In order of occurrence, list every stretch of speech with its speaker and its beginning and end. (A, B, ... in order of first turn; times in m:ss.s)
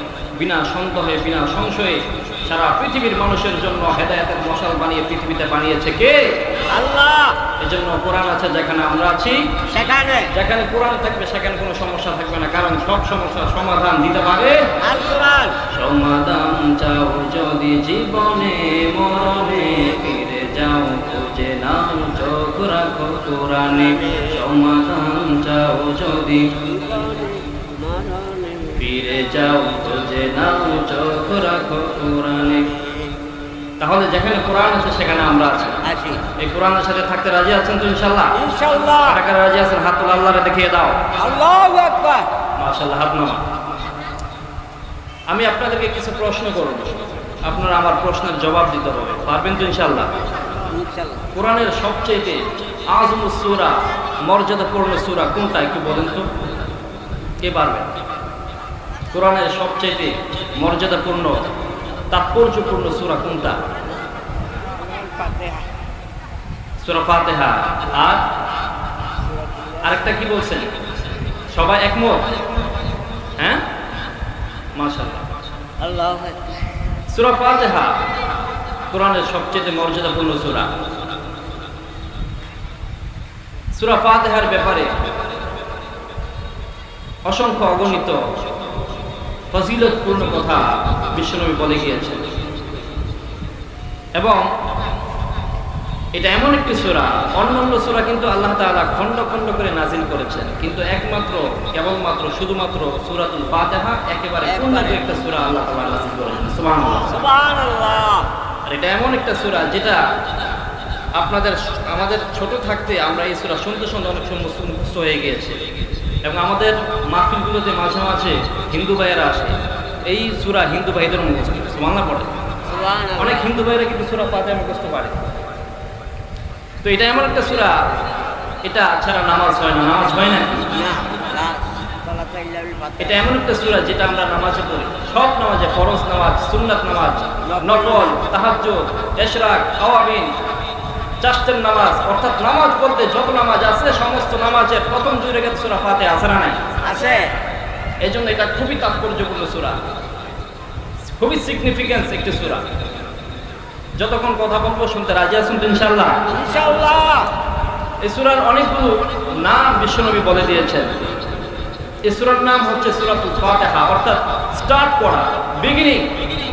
0:00.4-0:06.4 A
0:06.7-0:07.4 B
0:07.6-0:09.5 A
0:09.7-0:10.3 B
0:10.3-0:14.7 A
0:14.8-0:15.6 B
0:15.7-0:26.5 A
0:23.8-0:24.4 B
0:26.6-0:28.8 B
0:28.8-0:32.7 A
0:33.8-0:35.8 A
0:35.8-0:36.2 B
0:36.4-0:38.4 A
0:38.3-0:39.2 B
0:39.0-0:41.0 A
0:41.2-0:42.3 B
0:42.6-0:43.4 A
0:45.3-0:50.1 A
0:50.7-0:51.2 B
0:51.3-0:56.3 A
0:57.4-0:57.9 A
0:59.1-1:01.4 A
1:02.1-1:03.6 A
1:04.8-1:05.7 B
1:06.8-1:08.2 A
1:09.3-1:10.1 B
1:09.8-1:10.7 A
1:11.5-1:12.3 A
1:13.4-1:13.6 A
1:14.8-1:15.3 A
1:15.8-1:16.6 B
1:17.1-1:18.0 A
1:18.9-1:20.7 A
1:23.8-1:24.9 A
1:27.3-1:28.2 A
1:29.5-1:32.2 A
1:34.2-1:34.4 A
1:36.2-1:47.3 A
1:44.4-1:45.2 B
1:46.8-1:48.3 B
1:48.7-1:50.0 A
1:51.2-1:55.6 A
1:56.2-2:02.3 A
2:02.7-2:03.5 B
2:03.2-2:05.2 A
2:06.8-2:07.8 A
2:08.6-2:10.7 A
2:10.7-2:13.3 B
2:13.0-2:20.3 A
2:17.5-2:18.2 B
2:21.2-2:26.6 A
2:26.8-2:27.3 B
2:28.0-2:29.8 A
2:31.1-2:32.6 A
2:34.0-2:36.2 A
2:36.3-2:37.3 B
2:38.0-2:40.9 A
2:42.0-2:46.1 A